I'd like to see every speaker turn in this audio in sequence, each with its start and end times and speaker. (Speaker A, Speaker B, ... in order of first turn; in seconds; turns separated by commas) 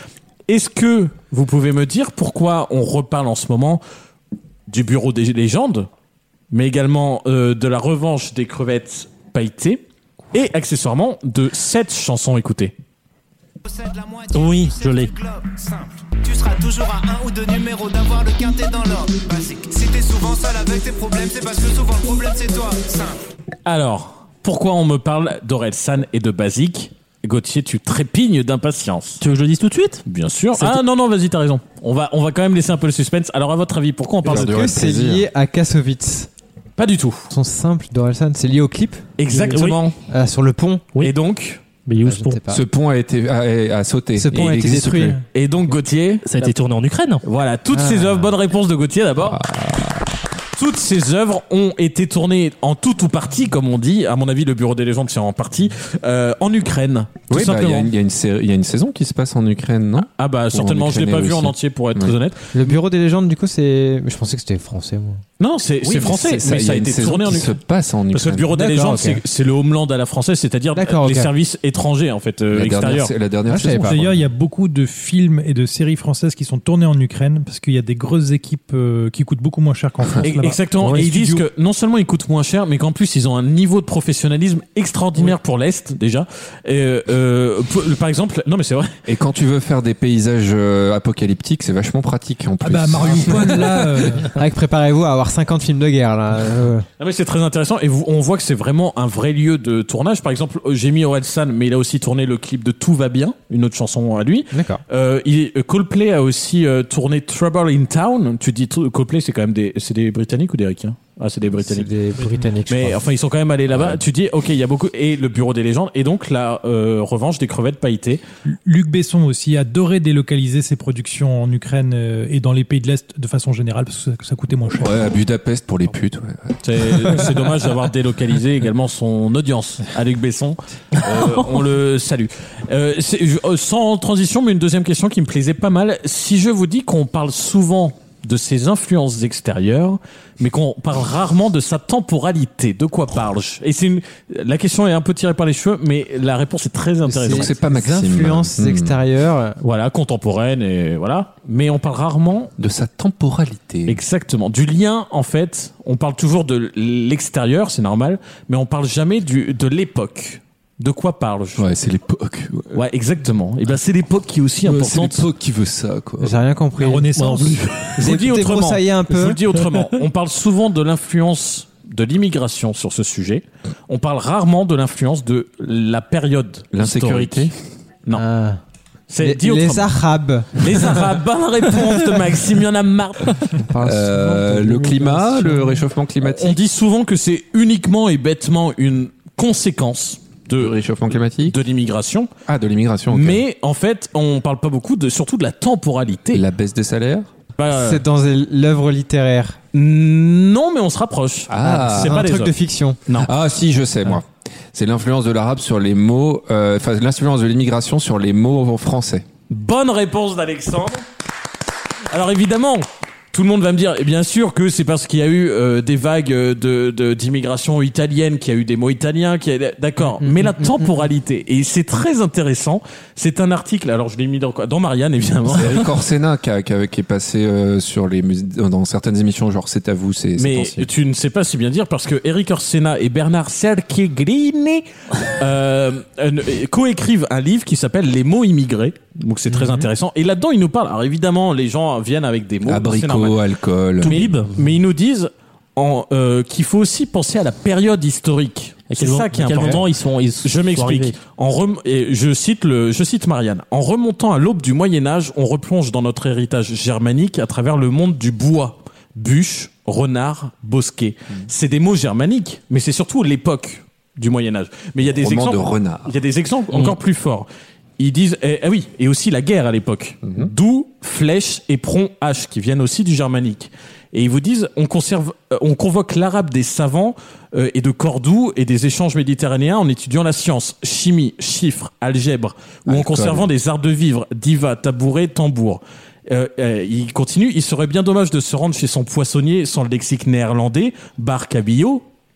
Speaker A: 0.5-3.8, Speaker A: 4.7-5.9, Speaker A: 6.5-9.8, Speaker A: 10.3-12.7, Speaker B: 13.6-23.2, Speaker C: 14.3-15.1, Speaker A: 23.7-29.2, Speaker C: 29.2-30.0, Speaker A: 30.1-34.6, Speaker C: 30.6-30.8, Speaker D: 34.2-35.3, Speaker E: 34.3-36.3, Speaker A: 36.8-37.3, Speaker E: 37.3-39.0, Speaker A: 39.2-40.0, Speaker C: 39.3-39.8, Speaker E: 40.1-40.9, Speaker A: 41.0-41.6, Speaker C: 41.9-42.4, Speaker E: 42.0-42.6, Speaker D: 42.5-45.2, Speaker E: 44.2-45.2, Speaker A: 45.3-46.4, Speaker C: 46.2-47.2, Speaker A: 47.2-49.4, Speaker E: 47.7-48.3, Speaker D: 49.2-50.1, Speaker A: 50.5-57.9, Speaker D: 57.3-62.2, Speaker A: 60.2-62.8, Speaker E: 62.5-65.2, Speaker A: 65.4-67.5, Speaker D: 65.8-68.6, Speaker A: 68.1-73.1, Speaker E: 68.5-69.2, Speaker E: 70.8-71.3, Speaker D: 72.5-74.1, Speaker E: 73.5-74.0, Speaker F: 73.8-80.7, Speaker A: 80.2-88.9, Speaker E: 80.8-81.5, Speaker D: 89.1-94.3, Speaker F: 92.6-94.4, Speaker E: 94.3-96.9, Speaker A: 97.0-111.9, Speaker E: 104.5-104.8, Speaker E: 111.6-113.0, Speaker A: 112.7-118.2, Speaker D: 113.7-114.0, Speaker F: 118.5-125.0, Speaker D: 124.8-127.3, Speaker A: 126.6-147.5, Speaker E: 147.0-149.6, Speaker D: 147.2-149.0, Speaker A: 149.6-152.5, Speaker D: 152.6-154.0, Speaker A: 153.9-161.7, Speaker D: 161.6-162.8, Speaker A: 162.7-165.3, Speaker D: 164.6-166.4, Speaker E: 166.2-169.4, Speaker F: 166.8-168.0, Speaker C: 167.2-167.8, Speaker A: 168.0-177.5, Speaker D: 176.7-177.5, Speaker E: 178.1-178.6, Speaker A: 179.1-179.9, Speaker E: 179.2-180.8, Speaker A: 180.6-183.4, Speaker E: 183.5-185.8, Speaker D: 183.8-186.6, Speaker A: 186.2-190.8, Speaker D: 190.6-191.6, Speaker A: 191.4-192.3, Speaker D: 192.5-193.4, Speaker A: 193.1-196.4, Speaker D: 196.3-197.3, Speaker A: 197.6-198.0, Speaker E: 197.7-199.6, Speaker A: 199.7-202.5, Speaker D: 201.5-202.3, Speaker E: 201.6-203.0, Speaker D: 203.1-209.2, Speaker A: 209.5-211.0, Speaker A: 212.1-225.9, Speaker E: 220.2-221.1, Speaker D: 225.5-230.9, Speaker A: 230.4-243.5, Speaker D: 242.7-244.2, Speaker A: 244.0-249.8, Speaker C: 244.0-244.6, Speaker C: 248.9-251.2, Speaker E: 249.5-249.8, Speaker A: 250.4-267.5, Speaker D: 265.0-266.1, Speaker A: 268.0-292.0, Speaker D: 270.2-270.5, Speaker D: 282.9-283.5